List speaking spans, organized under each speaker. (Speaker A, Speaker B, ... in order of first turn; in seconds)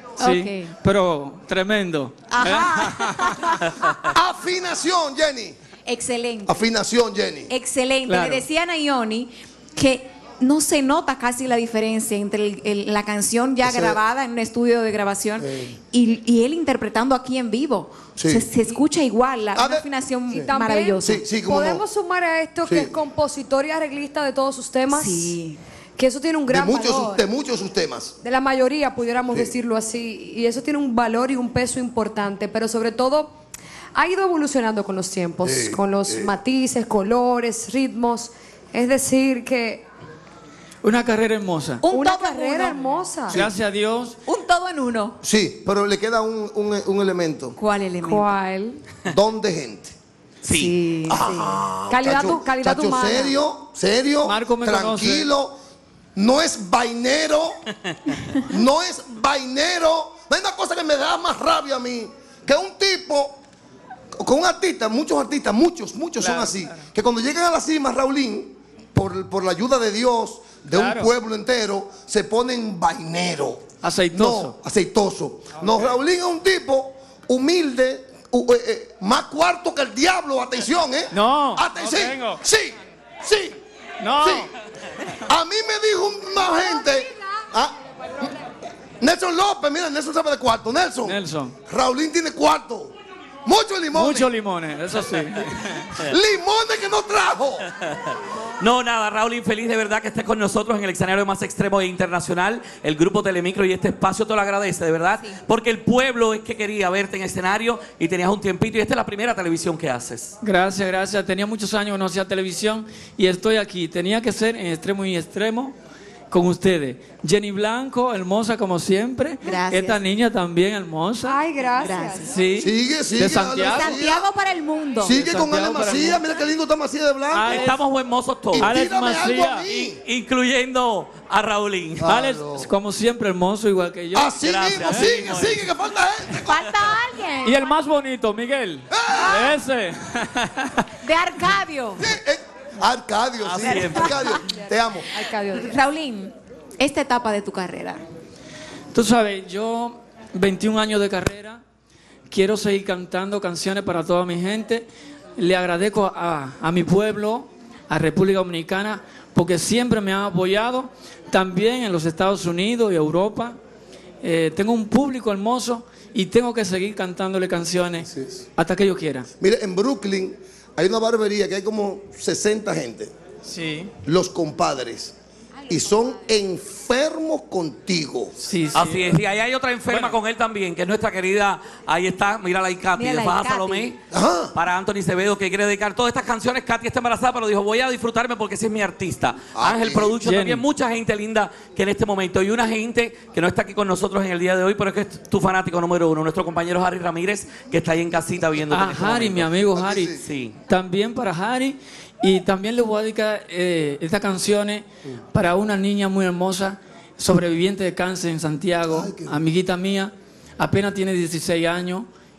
Speaker A: 0.2-0.7, 2.3-3.9, 5.8-6.6, 7.5-21.3, 24.9-25.6, 41.8-42.9, 44.3-45.2, 47.6-48.4, 50.5-51.3, 119.4-120.0, 121.8-122.4, 123.5-125.3, 136.4-137.8, 141.0-142.1, 143.6-144.5, 145.2-148.0, 175.6-176.2, 182.9-183.9
Speaker B: 0.2-3.4, 8.1-8.5, 40.8-41.8, 43.3-44.2, 54.2-55.3, 66.2-66.8, 70.7-71.1, 73.8-74.6, 81.1-82.4, 84.0-84.5, 91.0-91.5, 93.9-96.0, 110.4-115.8, 116.3-121.4, 122.2-124.0, 125.1-126.2, 127.3-127.8, 128.6-129.7, 132.1-134.4, 137.4-140.9, 148.9-151.6, 152.3-163.6, 164.2-169.3, 173.4-173.9, 178.4-179.2, 179.9-180.2, 190.2-190.6, 198.6-212.1
Speaker C: 4.0-5.6, 6.5-7.5, 13.6-14.0, 15.4-15.7, 18.2-18.5, 19.6-20.5, 21.0-21.8, 22.7-22.9, 26.5-28.1, 35.4-36.3, 45.2-47.6, 49.1-50.0, 51.1-55.6, 56.2-57.6, 58.4-63.4, 64.1-83.6, 84.2-84.5, 85.2-88.3, 89.0-92.9, 93.5-94.3, 96.0-97.7, 122.6-124.3, 125.0-127.8, 128.5-130.0, 132.0-132.7, 134.1-136.9, 138.9-139.6, 142.0-145.1, 168.0-168.4, 169.4-173.1, 174.0-175.2, 175.7-178.3, 184.1-184.6, 189.6-190.2, 199.7-200.2, 208.9-209.4
Speaker D: 20.3-25.4, 26.0-27.2, 28.2-33.3, 34.0-39.8, 41.9-43.4, 48.0-48.8, 51.1-53.4, 86.5-87.0, 121.2-122.4, 145.1-145.8
Speaker E: 50.5-50.8, 97.8-110.4, 127.5-128.8, 129.7-132.2, 134.4-135.7, 143.4-144.3, 178.7-184.0, 184.6-199.7, 200.2-200.6